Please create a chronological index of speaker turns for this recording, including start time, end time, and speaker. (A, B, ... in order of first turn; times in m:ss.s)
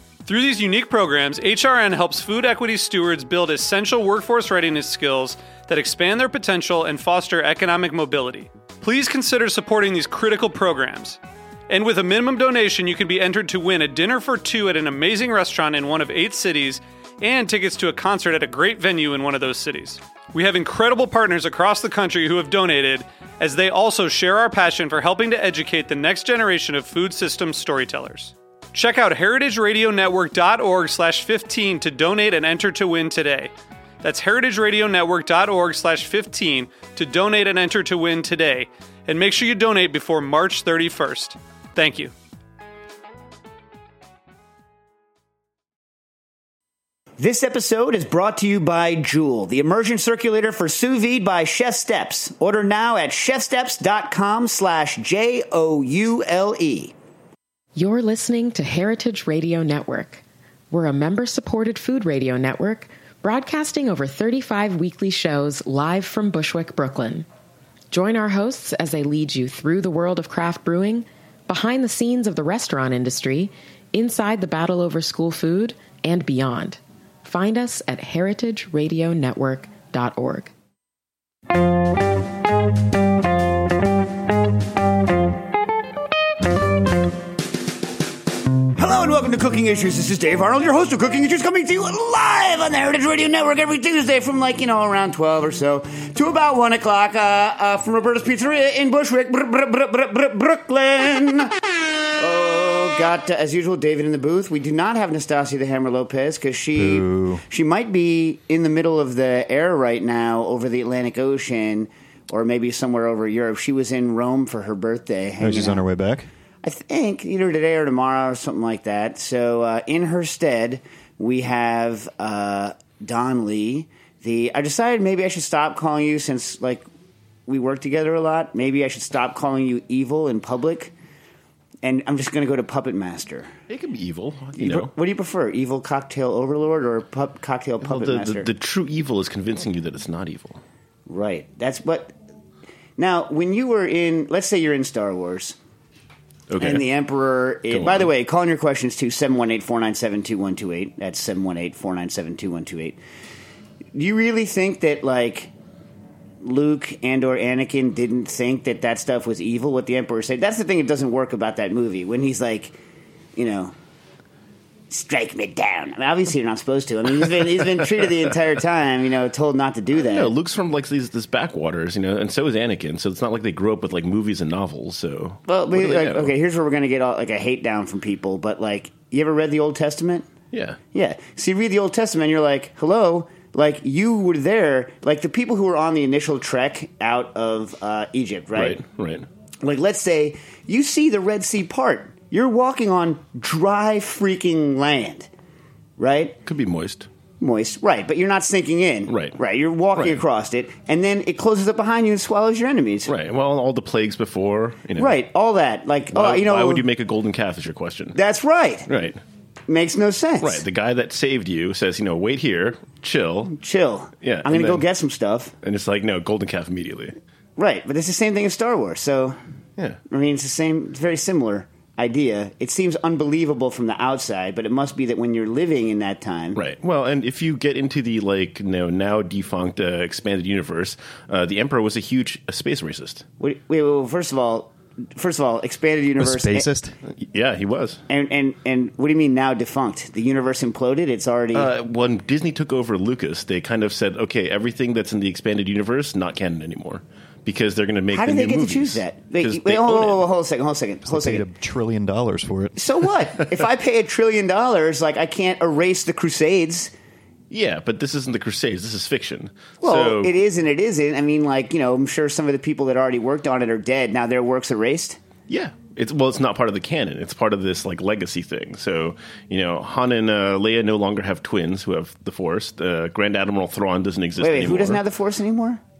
0:00.3-0:42.1 A
0:47.2-0:56.9 B
0:57.8-1:07.3 C
1:07.9-1:20.5 C
1:28.8-1:41.5 B
1:42.2-1:55.9 B
1:46.8-1:47.4 D
1:55.4-1:56.3 D
1:56.6-2:06.9 B
2:07.5-2:10.9 B
2:11.8-2:13.5 B
2:13.7-2:14.9 E
2:14.6-2:18.5 B
2:17.8-2:20.6 E
2:21.1-2:22.1 B
2:23.0-2:25.6 B
2:26.5-2:26.8 E
2:26.6-2:33.0 B
2:27.7-2:28.1 E
2:33.9-2:35.5 B
2:36.4-2:42.8 B
2:43.4-2:43.7 B
2:44.9-2:50.3 B
2:49.9-2:56.3 E
2:55.5-3:00.3 B
3:00.5-3:00.8 E
3:00.9-3:08.8 B
3:08.6-3:09.3 E
3:09.6-3:15.3 B
3:16.0-3:16.4 B
3:16.5-3:17.1 E
3:17.4-3:23.1 B
3:19.1-3:19.4 E
3:20.0-3:20.2 E
3:23.1-3:25.2 E
3:25.0-3:26.8 B
3:26.1-3:28.2 E
3:28.2-3:28.9 B
3:28.9-3:29.2 E
3:29.7-3:30.6 B
3:30.4-3:33.6 E
3:33.5-3:35.5 B
3:34.2-3:34.8 E
3:35.6-3:37.2 E
3:37.6-3:39.4 B
3:40.1-3:46.6 B
3:46.6-3:53.2 E
3:53.4-3:56.7 B
3:56.2-3:57.0 D
3:57.1-3:58.0 E
3:58.1-4:01.7 B
4:01.5-4:10.3 E
4:08.1-4:11.4 B
4:11.1-4:12.8 D
4:12.8-4:16.9 B
4:17.5-4:20.3 E
4:19.8-4:25.2 B
4:25.5-4:35.0 E
4:34.4-4:35.8 B